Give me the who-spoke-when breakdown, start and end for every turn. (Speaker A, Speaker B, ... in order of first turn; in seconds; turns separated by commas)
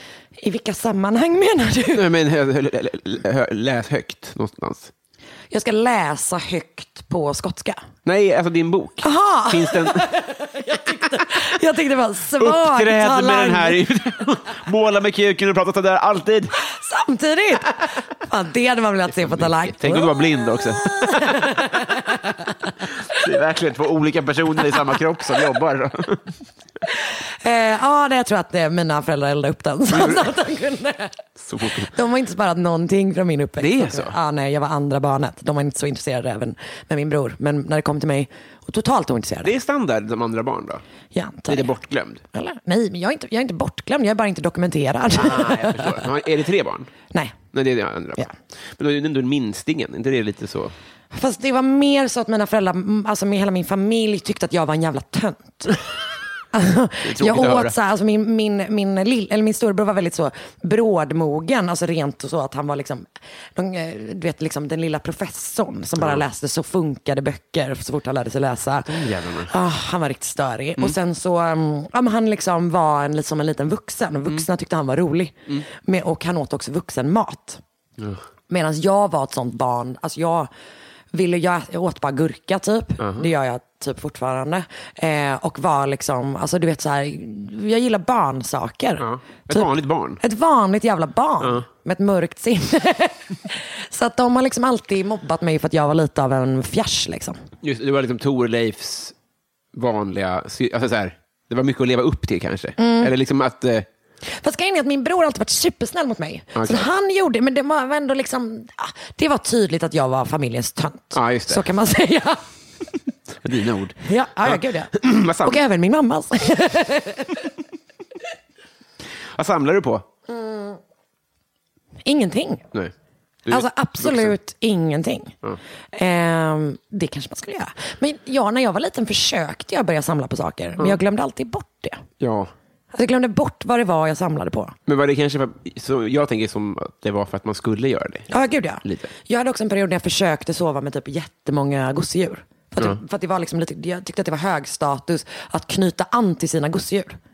Speaker A: 0.4-2.0, Speaker B: 1.9-4.9, Speaker A: 5.5-7.8, Speaker B: 8.1-10.1, Speaker A: 9.0-13.8, Speaker B: 12.3-16.5, Speaker A: 16.6-22.7, Speaker B: 19.2-21.6, Speaker B: 23.0-26.2, Speaker A: 26.9-31.2, Speaker B: 29.9-30.3, Speaker B: 31.4-31.9, Speaker A: 31.8-39.5, Speaker B: 33.6-34.1, Speaker B: 39.4-40.8, Speaker A: 41.1-41.7, Speaker B: 41.5-42.2, Speaker A: 42.3-46.0, Speaker B: 45.1-46.9, Speaker B: 47.5-50.7, Speaker A: 51.1-55.8, Speaker A: 56.5-77.6, Speaker B: 57.0-57.7, Speaker B: 66.0-66.2, Speaker B: 68.8-69.5, Speaker A: 78.5-80.5, Speaker A: 81.1-97.4, Speaker B: 83.0-83.3, Speaker B: 89.0-90.2, Speaker B: 91.4-91.7, Speaker B: 97.6-99.2, Speaker B: 99.7-103.9, Speaker A: 102.8-103.1, Speaker A: 104.3-112.4, Speaker B: 106.5-106.9, Speaker B: 111.1-111.7, Speaker B: 113.4-115.6, Speaker A: 114.0-117.5, Speaker B: 119.3-120.0, Speaker A: 120.3-120.8, Speaker A: 122.0-122.7, Speaker B: 123.5-124.3, Speaker A: 123.5-125.3, Speaker A: 125.9-132.0, Speaker B: 132.2-132.5, Speaker A: 132.9-134.7, Speaker B: 134.9-138.3, Speaker A: 138.3-147.2, Speaker B: 138.8-139.1